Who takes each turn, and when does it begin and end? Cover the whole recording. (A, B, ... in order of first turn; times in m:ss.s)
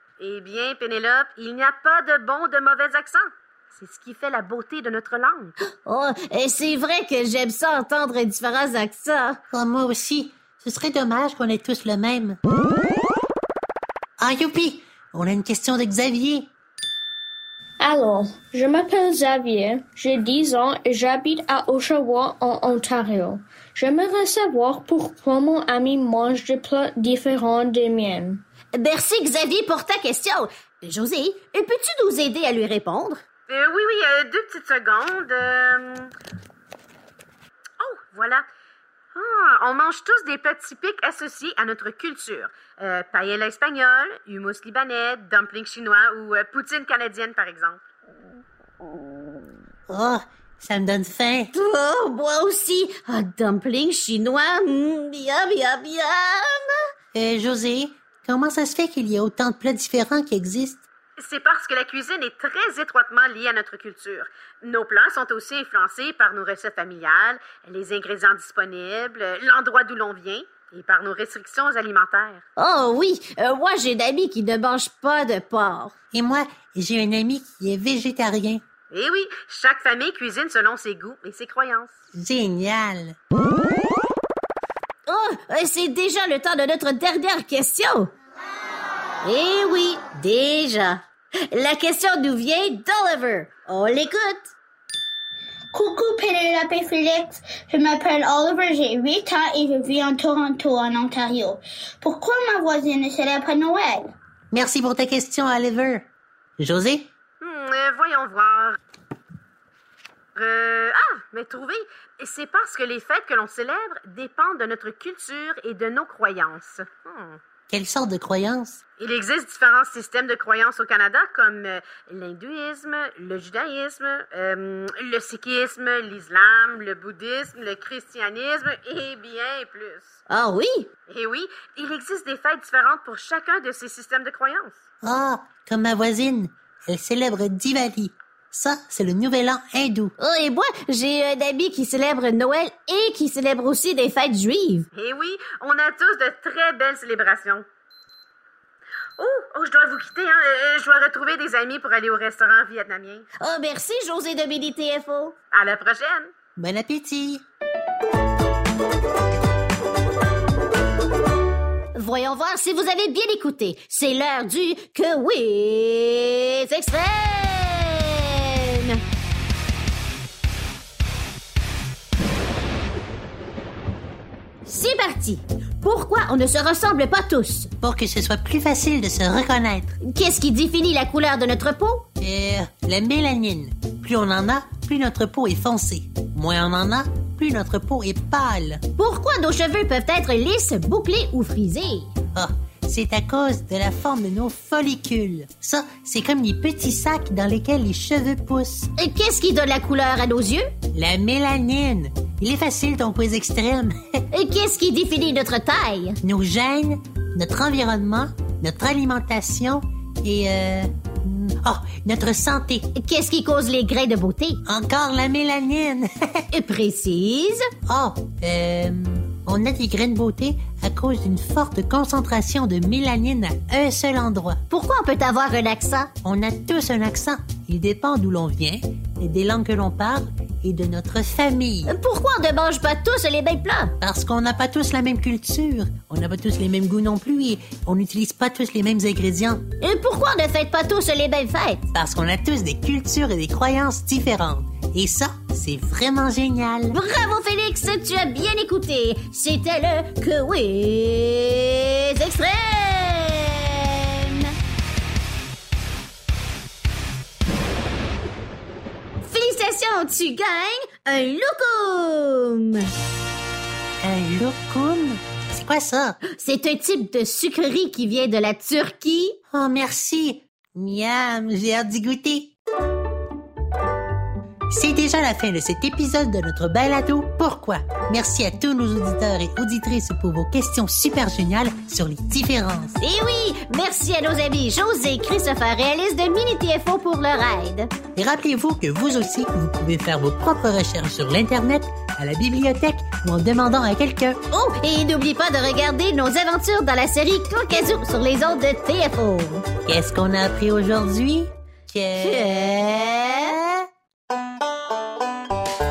0:00.3-0:03.2 A
0:03.8-0:05.5 A
0:05.9-0:09.4 B
0:09.5-0:12.4 C
0:14.2-0:16.5 C
0:17.8-0:28.4 D
0:28.8-0:33.2 B
0:33.5-0:36.1 A
0:37.9-0:38.5 A
0:39.2-0:47.8 A
0:49.9-0:51.5 C
0:51.6-0:56.7 B
0:57.1-1:00.8 C
1:01.2-1:12.4 A
1:12.6-1:16.0 B
1:16.1-1:18.6 C
1:18.9-1:21.9 A
1:22.2-1:23.2 C
1:25.1-1:28.1 B
1:29.2-1:34.5 B
1:35.7-1:44.1 E
1:44.5-1:46.1 C
1:46.6-1:47.1 C
1:47.4-1:48.8 A
1:50.4-1:57.4 A
1:57.7-1:58.8 C
1:59.0-2:10.2 A
2:10.3-2:10.9 B
2:11.1-2:14.8 A
2:15.0-2:20.1 C
2:20.2-2:24.9 B
2:24.9-2:27.6 A
2:29.2-2:33.2 A
2:33.4-2:35.4 B
2:35.5-2:36.3 A
2:36.6-2:37.4 C
2:42.0-2:49.0 B
2:54.7-2:57.7 B
2:57.8-3:00.0 C
3:00.0-3:02.0 B
3:02.2-3:08.8 C
3:09.0-3:12.1 B
3:12.4-3:18.9 C
3:19.0-3:20.7 B
3:20.9-3:23.9 C
3:24.3-3:26.2 B
3:26.2-3:32.9 C
3:33.0-3:34.6 B
3:34.6-3:36.4 C
3:36.5-3:37.6 B
3:37.9-3:44.6 C
3:44.7-3:46.1 B
3:46.2-3:51.9 C
3:51.9-3:53.9 B
3:54.0-3:59.7 C
3:59.8-4:01.9 B
4:01.9-4:07.0 C
4:06.9-4:14.5 B
4:19.2-4:22.9 B
4:24.0-4:26.2 C
4:26.4-4:29.4 B
4:29.5-4:32.6 C
4:34.7-4:43.0 C
4:43.0-4:47.9 B
4:48.2-4:54.4 C
4:54.5-4:59.7 B
4:59.9-5:02.7 C
5:02.2-5:03.6 B